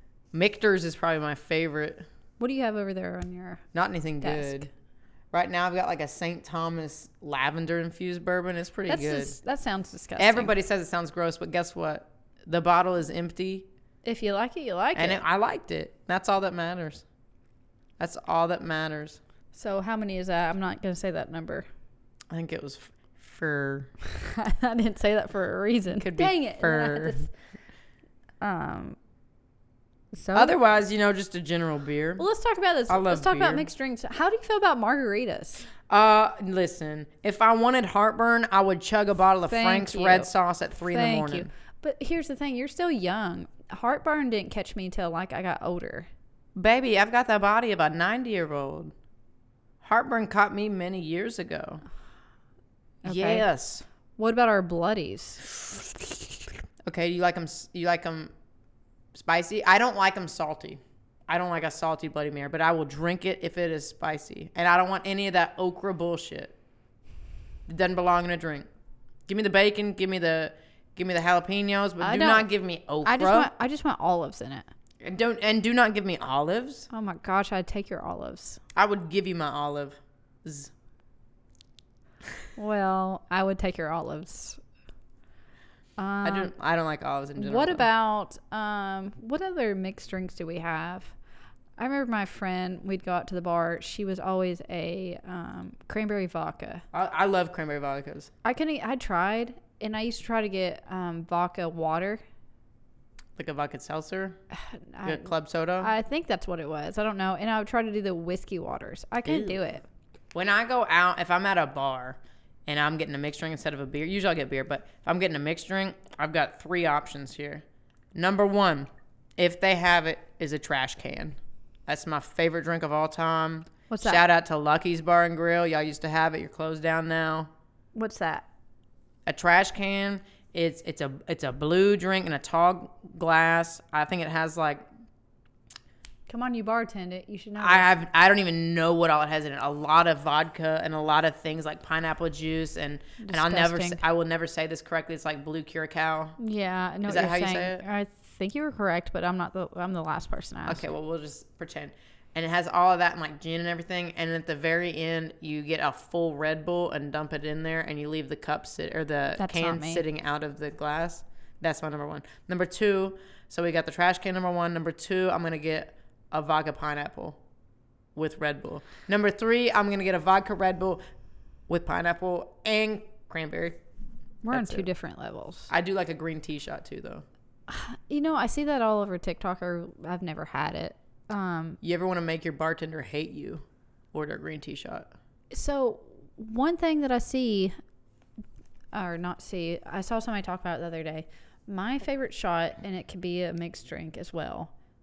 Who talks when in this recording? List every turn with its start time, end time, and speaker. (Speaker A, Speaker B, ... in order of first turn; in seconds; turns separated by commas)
Speaker A: 0.3-2.1, Speaker B: 2.4-3.6, Speaker A: 3.7-4.7, Speaker B: 4.2-4.7, Speaker A: 5.3-9.3, Speaker B: 8.9-10.5, Speaker A: 10.2-13.7, Speaker B: 14.0-15.2, Speaker A: 14.9-17.0, Speaker A: 18.0-19.2, Speaker B: 19.5-21.7, Speaker A: 22.3-23.9, Speaker B: 24.0-27.3, Speaker A: 26.0-27.3, Speaker B: 28.4-29.0, Speaker B: 30.1-30.6, Speaker A: 30.3-32.2, Speaker B: 32.2-35.7, Speaker A: 32.9-33.7, Speaker A: 35.9-41.5, Speaker B: 39.5-40.3, Speaker B: 40.8-46.1, Speaker A: 46.5-48.9, Speaker A: 49.8-51.8, Speaker B: 53.0-53.5, Speaker A: 53.0-53.8, Speaker B: 54.2-55.8, Speaker A: 56.9-58.3, Speaker A: 59.1-66.5, Speaker A: 67.7-68.7, Speaker A: 69.3-73.5, Speaker B: 72.0-72.5, Speaker B: 73.0-74.7, Speaker A: 75.0-76.9, Speaker B: 76.9-78.6, Speaker A: 78.7-80.7, Speaker B: 82.5-84.6, Speaker B: 86.0-86.5, Speaker A: 86.2-87.8, Speaker B: 87.4-91.1, Speaker B: 91.8-96.8, Speaker A: 96.9-98.3, Speaker B: 98.4-102.2, Speaker A: 103.4-104.4, Speaker B: 104.5-109.8, Speaker A: 105.0-105.9, Speaker A: 109.2-109.6, Speaker A: 110.3-117.6, Speaker A: 118.1-127.5, Speaker B: 123.9-124.2, Speaker B: 127.9-128.4, Speaker A: 129.2-134.8, Speaker B: 136.3-137.9, Speaker A: 137.6-146.4, Speaker B: 143.2-144.0, Speaker B: 146.4-150.8, Speaker A: 147.1-147.8, Speaker A: 150.7-167.4, Speaker B: 159.4-160.0, Speaker A: 168.2-171.0, Speaker A: 171.7-173.8, Speaker B: 174.4-175.7, Speaker A: 174.5-174.9, Speaker A: 175.7-177.2, Speaker B: 177.7-181.8, Speaker A: 181.8-185.1, Speaker B: 185.5-187.7, Speaker B: 188.9-194.7